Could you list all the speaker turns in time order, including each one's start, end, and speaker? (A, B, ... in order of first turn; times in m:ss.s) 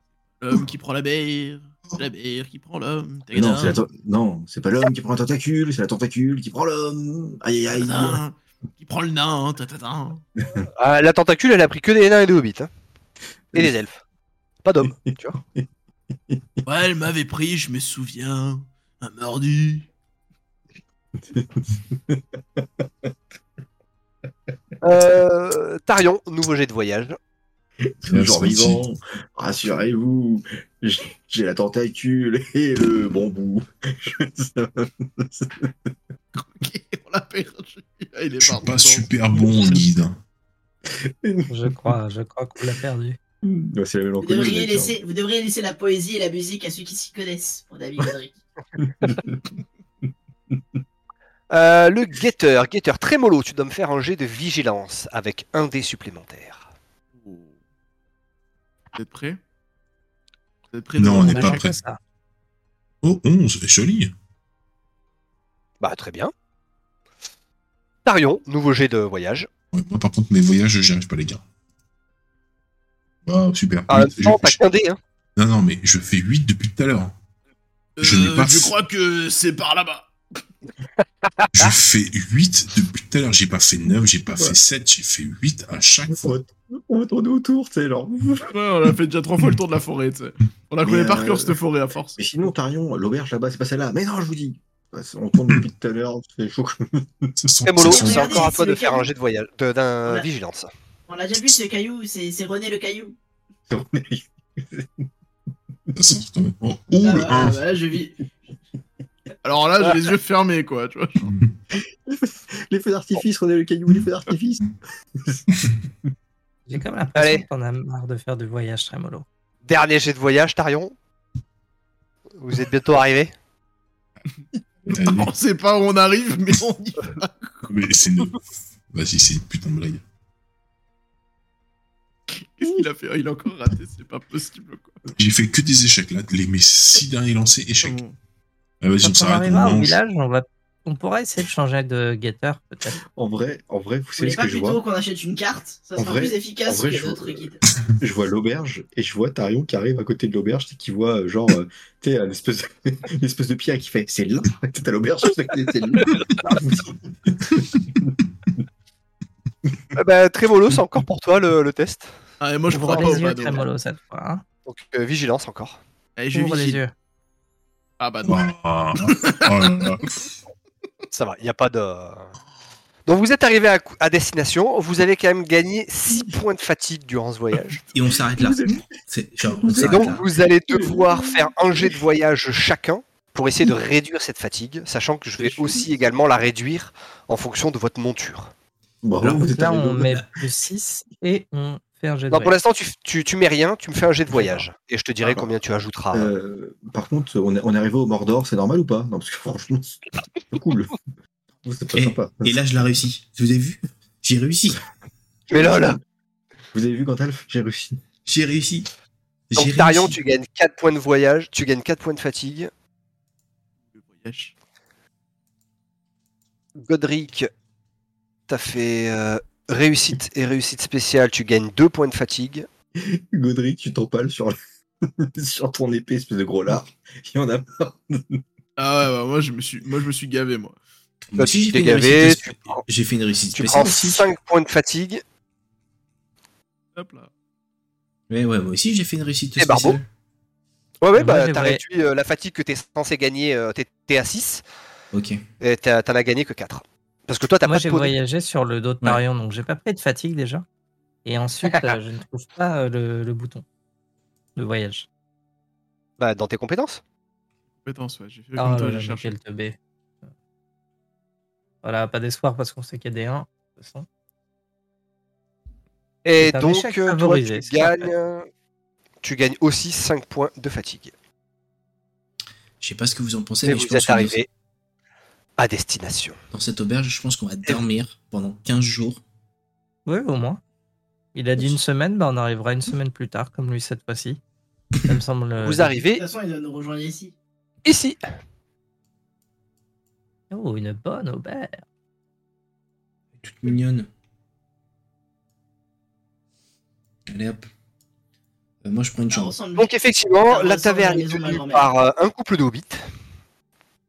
0:00.4-0:03.8 A
0:03.3-0:08.2 B
0:07.7-0:10.2 A
0:10.4-0:10.7 B
0:10.8-0:12.7 C
0:13.5-0:14.0 C
0:14.6-0:15.4 C
0:16.6-0:19.9 A
0:21.3-0:22.9 B
0:24.8-0:27.2 C
0:27.9-0:35.7 B
0:28.1-0:28.8 D
0:36.3-0:39.9 A
0:38.4-0:40.2 D
0:40.9-0:41.9 B
0:41.5-0:43.2 E
0:43.4-0:45.0 B
0:44.2-0:48.4 F
0:48.8-0:49.5 B
0:51.5-0:56.6 C
0:57.2-0:57.6 A
0:58.9-0:59.4 A
1:00.7-1:01.7 A
1:01.0-1:01.8 D
1:01.2-1:02.0 E
1:03.0-1:04.1 D
1:05.8-1:06.3 C
1:08.0-1:09.5 C
1:09.7-1:11.4 D
1:13.2-1:14.6 D
1:13.9-1:15.0 C
1:15.4-1:17.1 D
1:18.0-1:20.1 A
1:18.0-1:18.8 D
1:21.5-1:26.4 D
1:26.1-1:28.5 B
1:28.5-1:32.2 A
1:30.8-1:31.6 B
1:32.2-1:37.3 B
1:37.4-1:38.5 D
1:37.6-1:40.7 C
1:37.8-1:39.1 F
1:41.1-1:43.1 F
1:43.7-1:45.0 B
1:46.0-1:47.6 D
1:47.0-1:48.2 F
1:49.4-1:51.4 A
1:49.8-1:50.1 C
1:51.3-1:51.5 D
1:51.7-1:55.4 B
1:56.7-1:59.2 E
1:57.2-1:57.4 C
1:59.6-2:00.9 C
2:02.4-2:03.3 C
2:04.9-2:05.3 D
2:05.0-2:07.6 A
2:07.6-2:08.4 D
2:08.9-2:10.0 D
2:12.3-2:15.0 A
2:15.1-2:18.0 D
2:17.8-2:18.1 A
2:18.8-2:20.0 D
2:19.0-2:23.0 E
2:23.2-2:24.8 B
2:24.2-2:27.6 F
2:26.0-2:38.1 B
2:39.9-2:42.1 C
2:42.4-2:43.6 A
2:42.7-2:44.4 E
2:44.6-2:45.8 C
2:46.2-2:46.8 A
2:46.3-2:46.9 E
2:48.0-2:48.4 A
2:48.2-2:50.2 D
2:49.3-2:50.0 A
2:51.1-2:52.3 C
2:53.1-2:57.8 C
2:57.9-3:00.3 G
2:58.0-2:58.9 B
2:59.4-3:00.2 B
2:59.8-3:08.5 C
3:00.7-3:02.0 B
3:05.4-3:05.9 B
3:09.0-3:10.2 B
3:09.3-3:12.6 E
3:12.3-3:16.3 C
3:16.1-3:21.0 B
3:21.6-3:22.9 B
3:21.9-3:24.8 G
3:25.5-3:26.0 C
3:25.5-3:25.8 B
3:26.7-3:28.0 B
3:28.2-3:28.9 G
3:29.5-3:30.2 G
3:29.6-3:32.7 C
3:33.9-3:34.5 A
3:36.8-3:37.5 C
3:38.5-3:42.7 C
3:43.0-3:48.4 B
3:48.8-3:50.8 A
3:51.3-3:54.3 G
3:51.4-3:52.8 C
3:53.5-3:55.2 C
3:57.0-3:57.3 A
3:58.3-4:00.1 G
3:59.6-4:00.0 C
4:01.0-4:04.6 C
4:01.1-4:01.8 E
4:05.1-4:05.4 G
4:05.6-4:08.1 C
4:07.6-4:10.6 E
4:11.2-4:13.6 E
4:11.7-4:11.9 C
4:14.6-4:15.1 E
4:16.2-4:17.0 C
4:17.8-4:19.3 A
4:18.6-4:19.8 E
4:21.8-4:24.1 E
4:26.2-4:28.5 C
4:26.4-4:28.1 E
4:29.2-4:31.1 C
4:32.8-4:34.4 G
4:33.6-4:34.5 C
4:35.6-4:36.4 C
4:36.5-4:39.2 G
4:40.0-4:40.6 E
4:41.3-4:44.4 E
4:45.0-4:46.0 E
4:45.6-4:46.2 C
4:46.1-4:47.3 F
4:47.8-4:48.2 C
4:50.5-4:51.8 E
4:53.4-4:54.1 G
4:57.3-4:57.7 G
4:58.8-4:59.5 G
4:59.3-4:59.9 F
4:59.8-5:03.0 C
5:00.5-5:01.9 F